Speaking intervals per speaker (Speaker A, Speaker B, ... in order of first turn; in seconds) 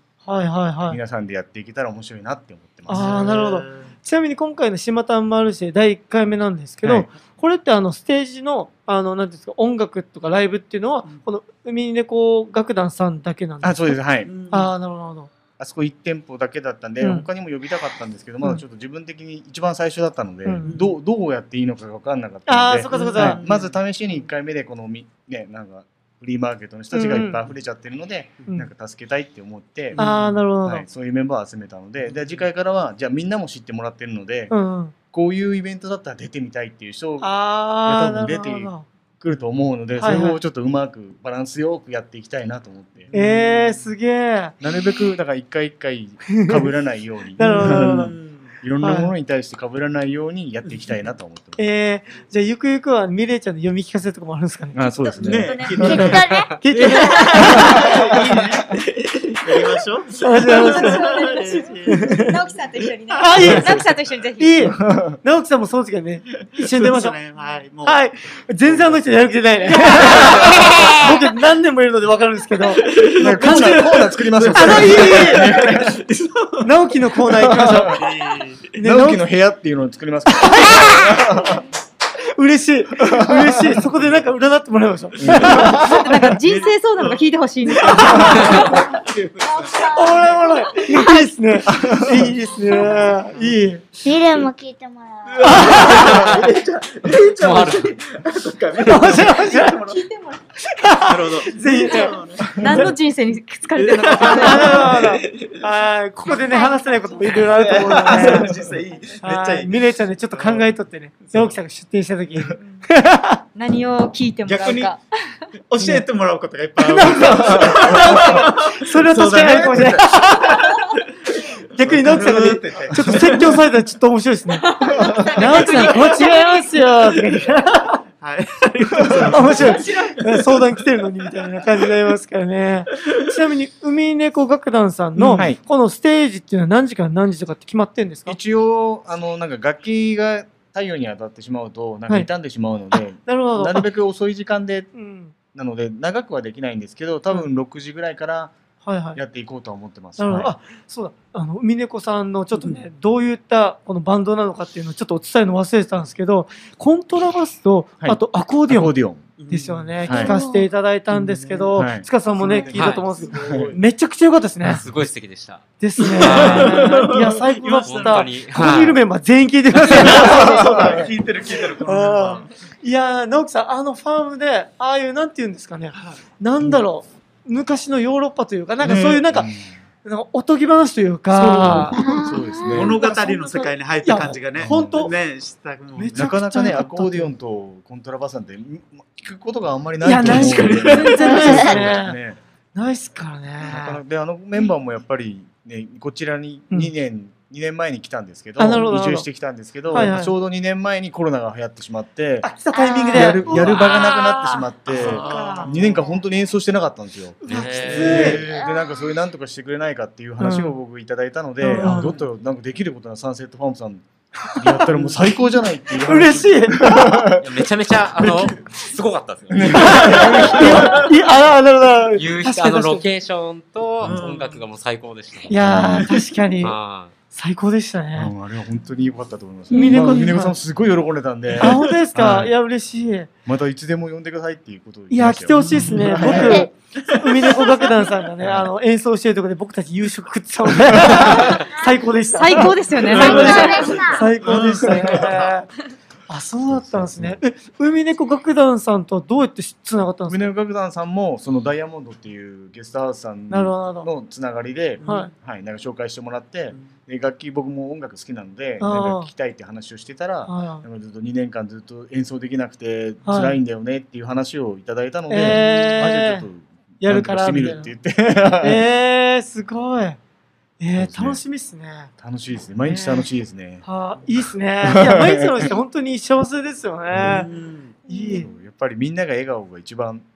Speaker A: 0.3-1.0, 2.9-15.3, 17.0-17.3, 20.4-20.7, 22.5-23.4, 26.9-27.4, 30.0-30.9, 34.5-34.9, 37.2-38.9, 40.0-40.4, 43.1-44.5, 46.3-46.7, 47.4-48.1, 48.8-49.1, 51.6-54.8, 55.8-57.9, 60.2-61.2, 61.9-62.4, 63.2-63.8, 64.4-67.2, 67.8-75.6, 76.6-78.0, 78.7-79.2, 80.3-81.2, 82.4-86.3, 89.9-94.0, 95.4-96.0, 98.8-100.0, 100.6-102.2, 104.2-108.6, 109.2-113.4, 115.8-116.0, 116.8-120.7, 121.8-128.0, 129.2-138.4, 143.2-143.9, 144.9-145.3, 148.8-149.2, 150.2-159.0, 159.5-164.8, 165.8-171.1, 171.8-179.5, 180.0-185.2, 186.0-187.3, 190.0-192.2, 192.8-194.0, 198.6-199.3, 199.9-200.3, 202.4-203.9, 207.4-208.5, 210.4-210.8, 211.6-212.2, 214.5-214.8, 216.0-217.3, 219.8-223.1, 225.5-226.8, 227.3-228.3, 229.7-230.6, 231.6-233.3, 235.1-245.7, 246.3-250.5, 253.5-254.1, 255.1-255.3, 258.8-259.3, 260.5-260.8, 263.2-263.6, 265.3-266.5, 267.0-267.9, 268.6-270.2, 270.8-272.1, 272.9-273.3, 273.8-277.5, 278.1-278.5
Speaker B: 0.9-3.3, 6.8-7.1, 13.6-14.3, 15.6-30.0, 30.6-34.5, 35.1-43.1, 44.6-51.6, 54.7-56.3, 57.9-58.5, 63.4-63.8, 64.7-65.2, 73.1-76.0, 77.4-78.1, 78.8-81.7, 83.0-83.8, 85.2-85.8, 91.7-92.3, 117.4-118.2, 138.3-144.9, 145.5-148.5, 149.2-150.6, 158.0-159.3, 160.0-160.4, 161.8-163.8, 170.3-171.1, 179.3-179.7, 181.3-183.0, 184.6-185.1, 186.2-192.4, 193.6-202.5, 203.1-217.7, 219.5-221.0, 224.0-224.2, 225.6-226.1, 228.2-232.5, 233.5-236.7, 238.4-238.7, 240.9-241.2, 246.7-247.4, 250.3-268.8, 270.9-271.4, 272.2-273.8, 274.8-275.7, 277.1-277.4, 278.3-280.2
Speaker C: 2.9-3.9, 14.2-14.7, 20.6-21.0, 22.9-23.8, 29.9-30.4, 32.1-32.5, 43.1-43.9, 47.4-48.5, 55.2-63.9, 66.6-68.0, 68.7-69.0, 69.8-71.1, 72.7-76.7, 77.5-78.7, 85.2-90.4, 91.9-94.5, 95.2-100.1, 101.0-103.0, 103.8-105.7, 107.5-110.7, 114.5-115.0, 115.7-121.0, 121.8-123.6, 124.9-126.2, 128.2-130.7, 135.2-135.5, 152.6-152.8, 159.4-160.4, 161.1-161.8, 162.4-163.8, 166.0-168.3, 169.8-172.5, 178.8-179.3, 182.7-186.3, 190.2-191.6, 203.5-203.9, 204.9-206.1, 207.9-208.8, 211.7-212.2, 214.9-215.2, 218.2-218.5, 219.8-221.1, 224.0-224.6, 235.5-238.1, 243.1-245.6, 255.0-255.3, 277.2-278.0
Speaker D: 55.0-55.9, 60.5-64.8, 85.6-91.2, 95.0-95.3, 100.0-100.4, 102.5-105.0, 106.2-108.4, 112.6-112.9, 113.5-115.0, 124.7-126.7, 129.4-130.1, 202.7-205.7, 242.3-244.1
Speaker E: 55.8-56.6, 94.0-95.4, 181.9-182.9, 243.2-244.3
Speaker F: 95.5-96.5, 97.4-98.0, 162.7-163.0, 164.7-165.6, 166.2-167.1, 167.8-169.0, 207.5-208.4, 217.4-221.1, 222.2-226.0, 226.6-227.1